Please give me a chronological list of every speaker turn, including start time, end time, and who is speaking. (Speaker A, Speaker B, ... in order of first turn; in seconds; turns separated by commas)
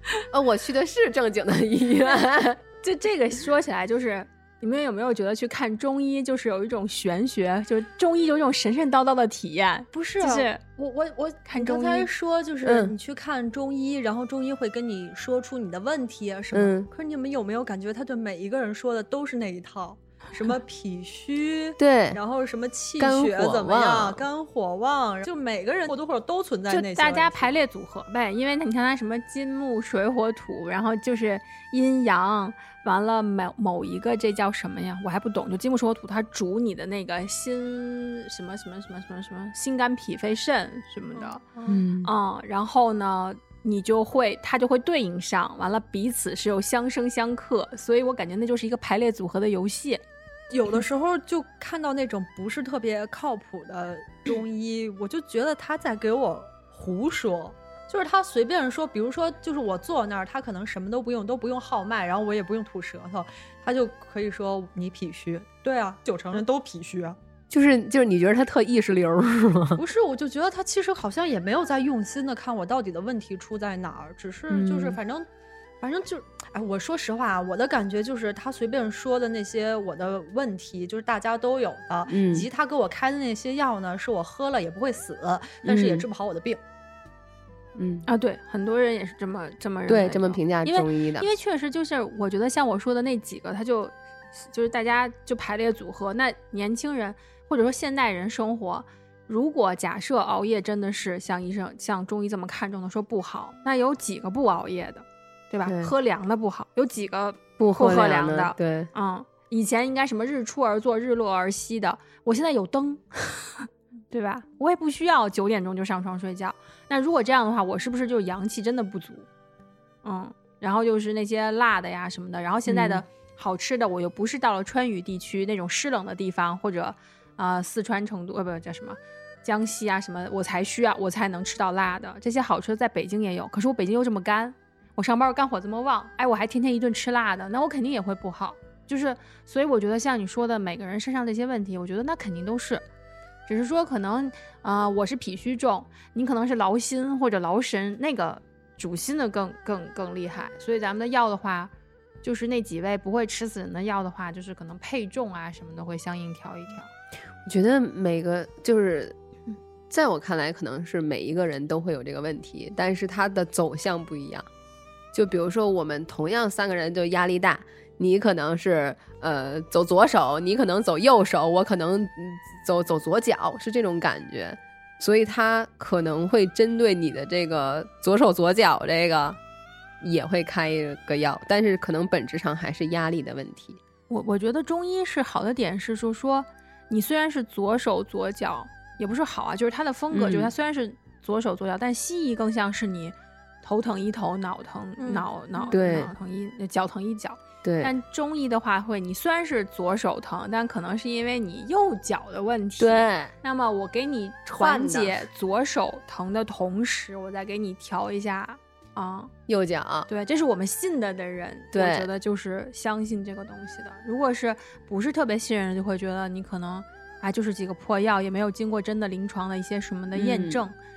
Speaker A: 0.3-2.6, Speaker B: 2.8-10.6, Speaker C: 9.9-27.6, Speaker B: 11.5-12.1, Speaker A: 12.7-12.9, Speaker A: 16.5-16.9, Speaker A: 21.8-22.2, Speaker A: 23.0-24.2, Speaker B: 26.7-41.4, Speaker C: 41.1-41.9, Speaker A: 41.7-42.1, Speaker B: 42.0-50.0, Speaker C: 50.5-67.2, Speaker A: 67.5-69.8, Speaker C: 69.8-75.3, Speaker A: 74.5-75.0, Speaker C: 75.8-86.6, Speaker A: 82.1-82.5, Speaker A: 85.6-86.0, Speaker A: 87.8-88.1, Speaker B: 88.1-119.3, Speaker A: 89.9-91.3, Speaker A: 105.7-105.9, Speaker A: 107.6-108.9, Speaker B: 120.0-142.8, Speaker A: 122.7-123.0, Speaker B: 143.5-151.7, Speaker B: 152.2-156.9, Speaker A: 157.5-159.2, Speaker A: 159.9-164.5, Speaker A: 165.1-179.4, Speaker A: 180.0-183.8, Speaker B: 184.1-209.3, Speaker A: 190.1-190.5, Speaker C: 195.0-195.7, Speaker A: 195.7-196.1, Speaker A: 197.6-197.9, Speaker A: 202.8-203.3, Speaker A: 204.6-205.2, Speaker A: 209.5-210.1, Speaker B: 210.1-220.8, Speaker A: 211.7-212.1, Speaker A: 220.1-220.6